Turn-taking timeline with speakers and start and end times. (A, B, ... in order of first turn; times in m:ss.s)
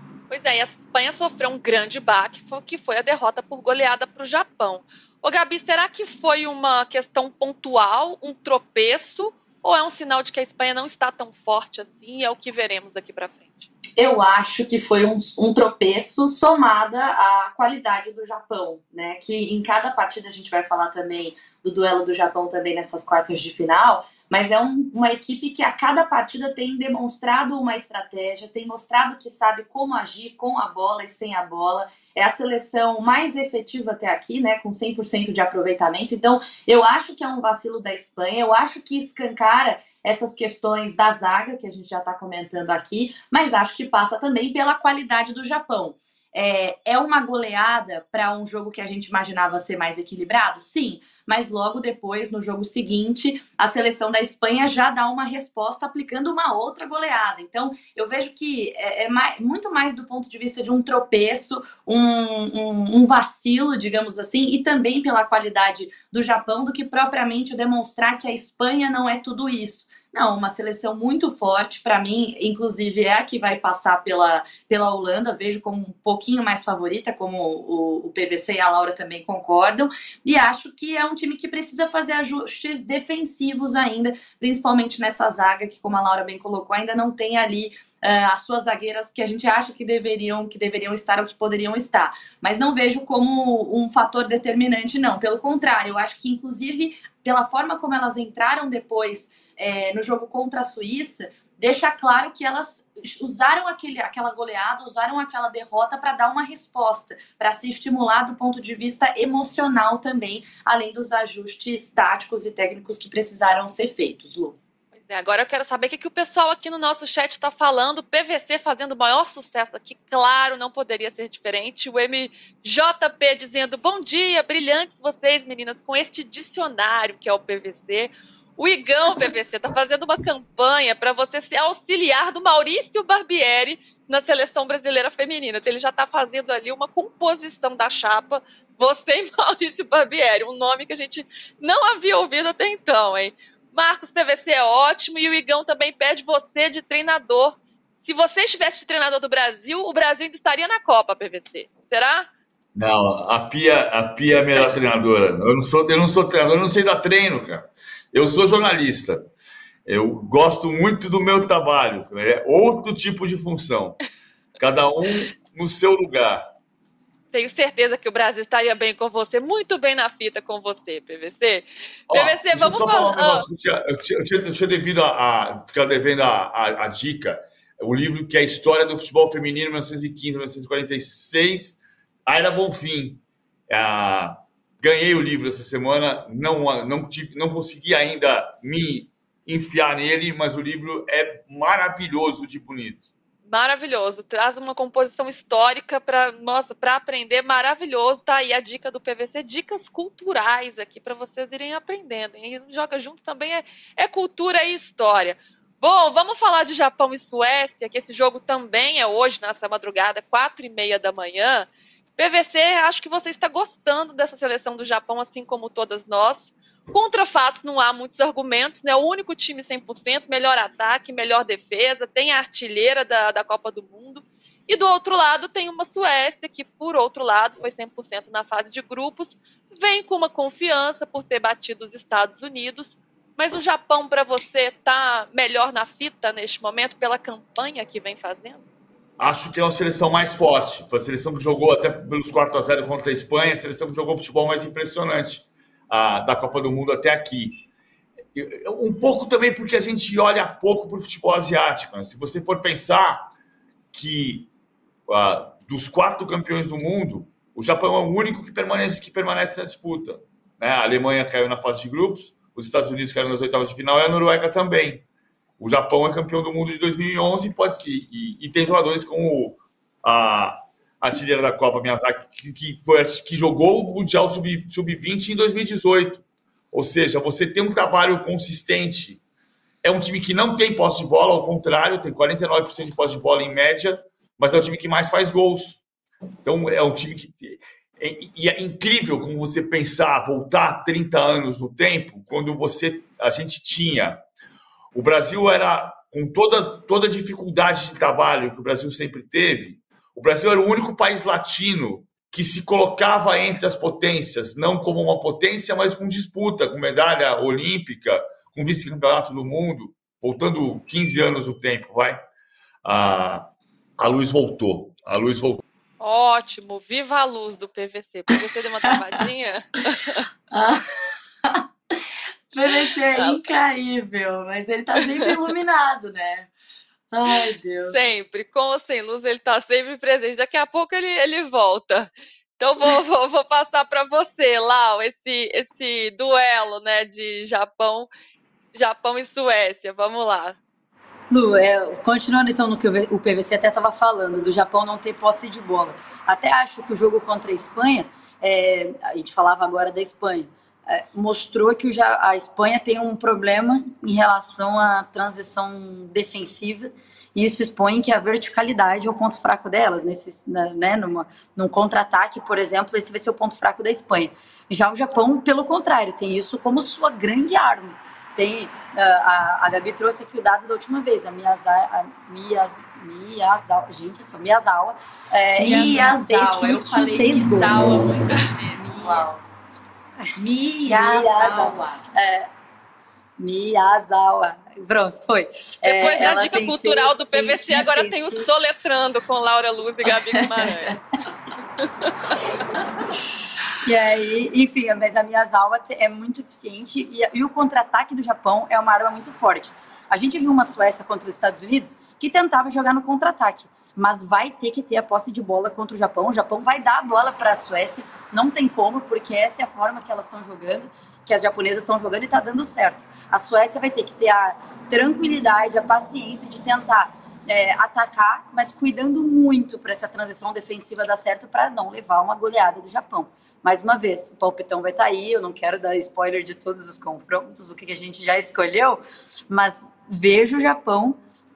0:00.3-0:13.7 A
0:14.0-1:54.6 B
1:55.0-2:32.3 A
2:32.8-2:39.3 C
2:39.8-2:44.0 C
2:44.6-2:46.4 C
2:47.3-2:53.4 A
2:52.1-3:13.1 C
3:13.5-3:58.6 A
3:59.2-4:07.6 C
4:08.4-4:13.2 C
4:13.9-4:14.5 C
4:15.1-4:25.0 C
4:25.6-4:39.2 C
4:39.8-4:45.8 C
4:46.4-4:54.2 C
4:54.9-5:12.2 C
5:12.8-5:15.6 C
5:16.0-5:20.2 A
5:20.5-5:20.8 B
5:21.4-5:22.0 B
5:22.5-5:26.5 B
5:22.8-5:23.4 A
5:27.1-5:28.2 B
5:27.9-5:38.1 A
5:38.7-5:40.6 A
5:41.3-6:19.3 D
6:15.6-6:19.4 B
6:20.4-6:22.0 B
6:20.8-6:22.5 D
6:23.4-6:28.5 D
6:25.8-6:31.0 A
6:25.9-6:26.5 B
6:30.4-6:30.9 B
6:31.8-6:32.3 A
6:33.8-7:11.2 D